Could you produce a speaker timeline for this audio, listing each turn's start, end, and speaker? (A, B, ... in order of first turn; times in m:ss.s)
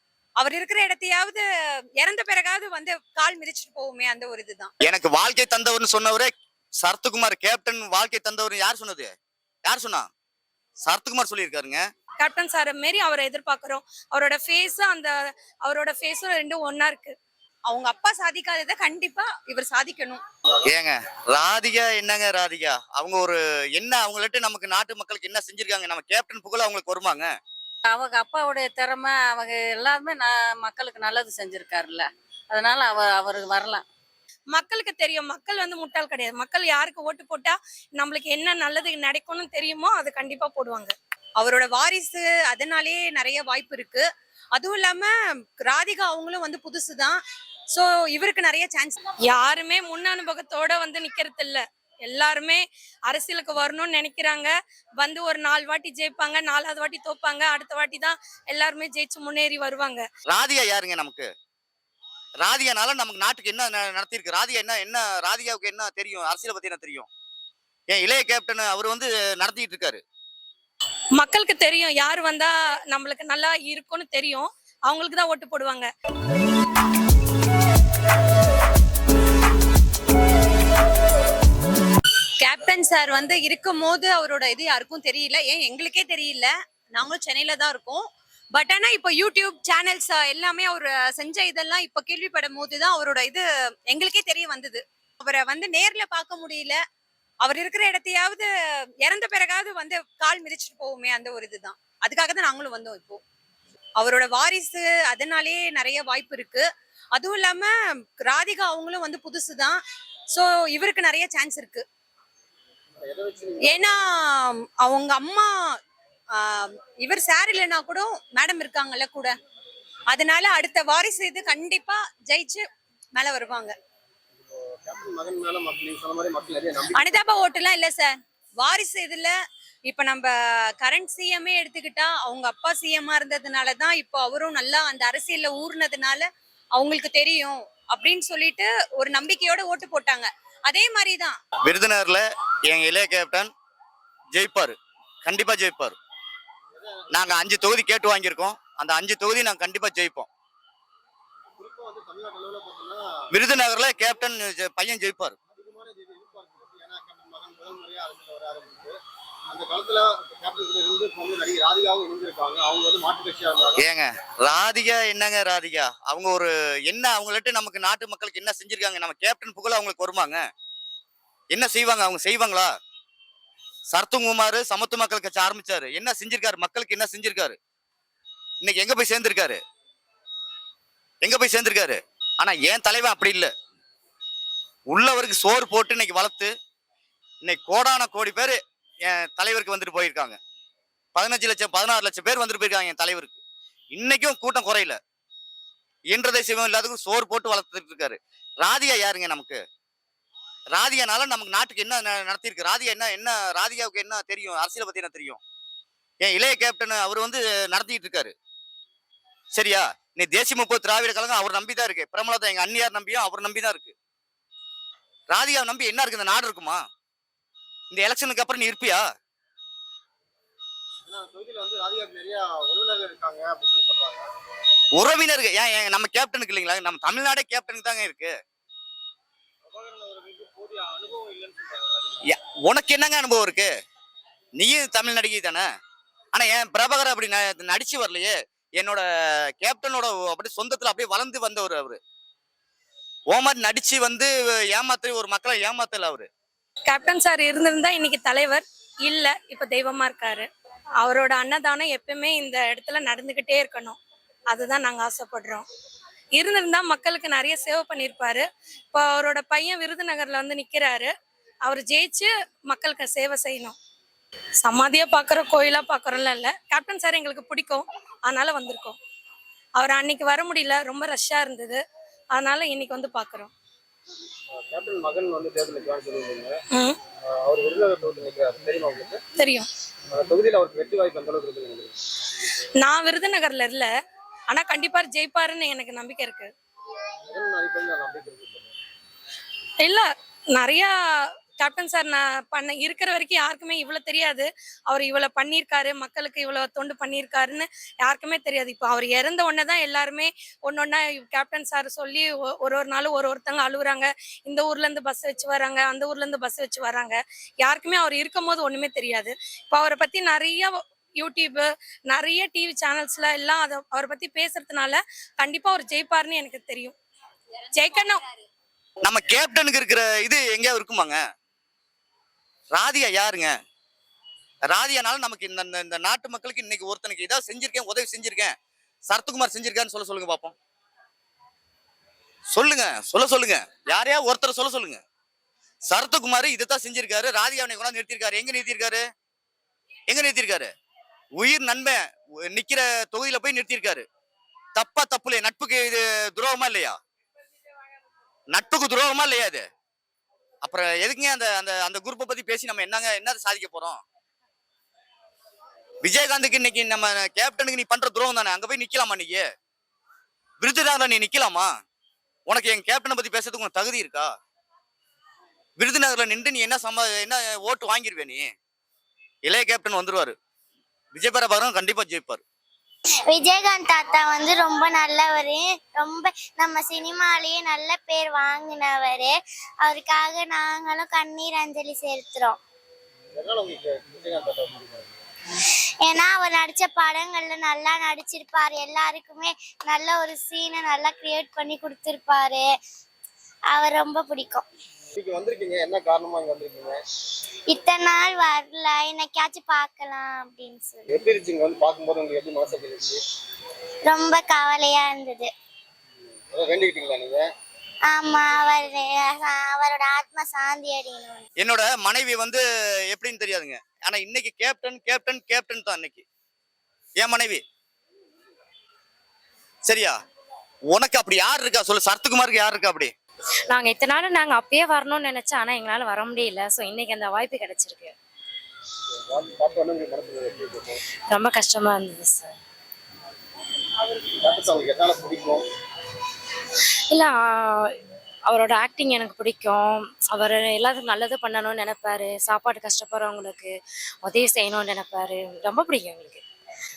0:00.4-0:01.4 A
0:02.0-0:04.7 A
0:04.8-0:09.1 B
0:09.7-0:10.1 B
0:10.8-0:11.8 B
0:12.2-0:17.2 C
0:17.7-0:20.2 A
0:20.6-0:27.3 B
0:27.9-0:33.8 D
0:34.5-0:40.9 C
0:41.4-0:47.2 A
0:47.7-0:49.0 A
0:49.3-1:00.1 C
1:00.3-1:01.3 B
1:02.4-1:07.1 B
1:07.9-1:10.0 B
1:11.2-1:15.9 C
1:22.4-1:36.8 A
1:37.4-1:38.5 A
1:39.0-1:43.2 A
1:44.0-1:49.8 A
1:50.3-1:51.8 A
1:53.0-1:54.0 E
1:53.6-1:55.5 A
1:56.3-1:59.4 A
2:00.1-2:02.6 A
2:03.2-2:03.8 A
2:04.5-2:07.2 E
2:06.9-2:09.3 A
2:09.9-2:21.4 A
2:21.6-2:23.5 B
2:24.3-2:26.0 B
2:26.7-2:27.0 E
2:27.1-2:30.3 B
2:31.6-2:33.0 E
2:33.3-2:35.4 B
2:35.5-2:39.0 E
2:39.5-2:43.8 E
2:43.8-2:50.4 B
2:51.5-2:52.7 B
2:53.9-2:57.6 B
2:58.6-2:59.6 B
3:01.2-3:03.5 B
3:04.9-3:06.5 B
3:07.4-3:10.4 B
3:11.2-3:13.4 B
3:13.9-3:15.0 B
3:16.1-3:19.6 B
3:20.7-3:25.4 B
3:26.2-3:28.3 B
3:29.5-3:33.9 B
3:35.3-3:36.8 B
3:37.9-3:39.0 B
3:41.1-3:44.3 E
3:45.0-3:48.4 B
3:49.7-3:52.2 E
3:52.3-3:53.7 B
3:54.6-3:55.7 B
3:56.3-3:59.0 B
3:59.6-4:02.0 B
4:03.3-4:06.3 B
4:06.9-4:10.5 C
4:11.0-4:14.0 C
4:14.5-4:15.7 C
4:16.4-4:21.1 C
4:21.6-4:23.8 C
4:24.6-4:29.0 C
4:29.8-4:31.8 C
4:32.3-4:33.5 C
4:34.6-4:36.6 E
4:36.7-4:37.0 C
4:37.4-4:39.2 E
4:39.4-4:39.7 C
4:40.2-4:41.9 E
4:42.8-4:43.9 C
4:44.5-4:46.5 C
4:47.3-4:48.6 E
4:49.8-4:50.9 C
4:51.6-5:17.0 C
5:17.7-5:18.2 C
5:19.0-5:21.2 B
5:22.7-5:23.5 B
5:24.7-5:28.5 B
5:29.1-5:30.6 B
5:32.5-5:35.0 B
5:35.9-5:39.0 B
5:40.1-5:40.7 B
5:41.4-5:44.1 B
5:44.8-5:47.0 B
5:48.5-5:49.6 B
5:50.6-5:54.0 B
5:56.0-5:59.5 B
6:00.6-6:01.7 B
6:02.5-6:04.3 B
6:05.8-6:08.5 B
6:09.5-6:10.4 B
6:11.1-6:12.4 B
6:13.3-6:22.6 F
6:23.4-6:25.1 E
6:26.0-6:32.7 F
6:33.7-6:34.6 F
6:35.2-6:37.0 E
6:37.7-6:41.0 F
6:41.1-6:43.2 E
6:44.1-6:45.5 F
6:46.5-6:47.5 E
6:48.1-6:51.4 F
6:51.6-6:56.2 B
6:57.2-6:57.6 B
6:59.9-7:00.2 B
7:00.9-7:03.1 B
7:03.7-7:08.2 G
7:09.1-7:11.0 E
7:11.3-7:12.5 G
7:14.3-7:15.6 E
7:17.1-7:26.4 G